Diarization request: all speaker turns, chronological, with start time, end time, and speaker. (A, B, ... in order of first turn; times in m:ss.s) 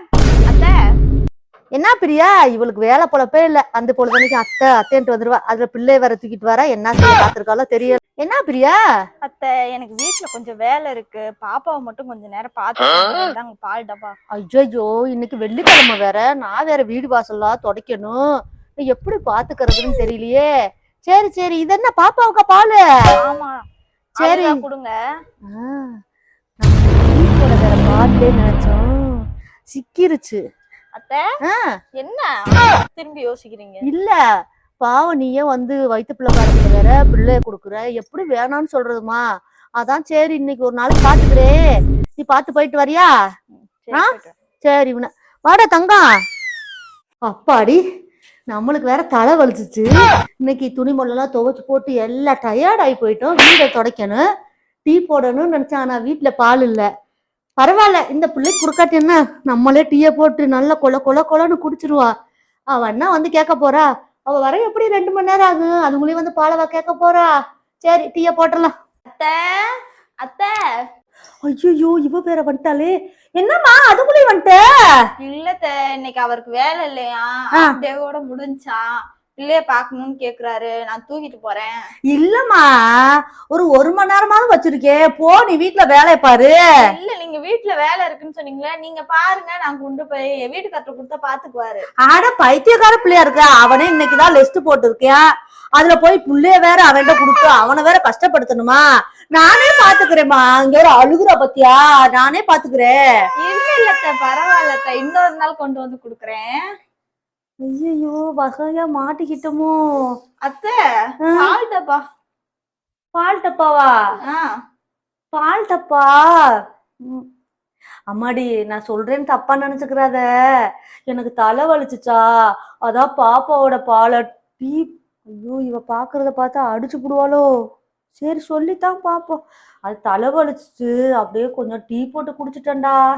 0:00.5-0:00.7 A
0:01.8-0:08.8 B
0:09.2-0:14.1 A
0:14.4-0:18.2 B
0:18.8-0:20.4 B
0:21.1-0:22.8 B
0:23.2-0:23.6 A
0:24.2-0:24.6 B
0:24.2-0:25.0 A
0:25.5-0:26.0 B
0:26.6-0:29.2 B
0:29.7-0:30.4 B
0:30.9-0:31.2 A
0:32.0-0:33.8 A
0:33.9-0:34.2 B
0:34.8-0:39.2 B
0:39.8-0:41.5 B
0:42.2-0:43.1 B
0:43.6-0:44.3 A
0:44.6-0:46.0 B
0:47.3-0:47.8 B
0:48.5-0:49.9 B
0:50.4-0:54.2 B
0:54.8-0:56.9 B
0:57.6-1:02.1 B
1:02.7-1:07.3 B
1:07.8-1:08.7 B
1:09.1-1:10.5 A
1:11.4-1:14.6 B
1:15.2-1:21.7 A
1:22.1-1:22.6 B
1:23.5-1:26.6 B
1:26.8-1:31.8 A
1:32.0-1:35.2 B
1:35.8-1:38.8 B
1:39.3-1:43.0 B
1:43.4-1:46.5 A
1:47.7-1:49.7 B
1:50.4-1:50.8 A
1:51.3-1:52.0 A
1:53.2-1:53.9 B
1:55.3-1:56.2 B
1:58.1-2:00.2 B
2:01.1-2:02.2 B
2:02.8-2:07.4 B
2:08.2-2:13.0 B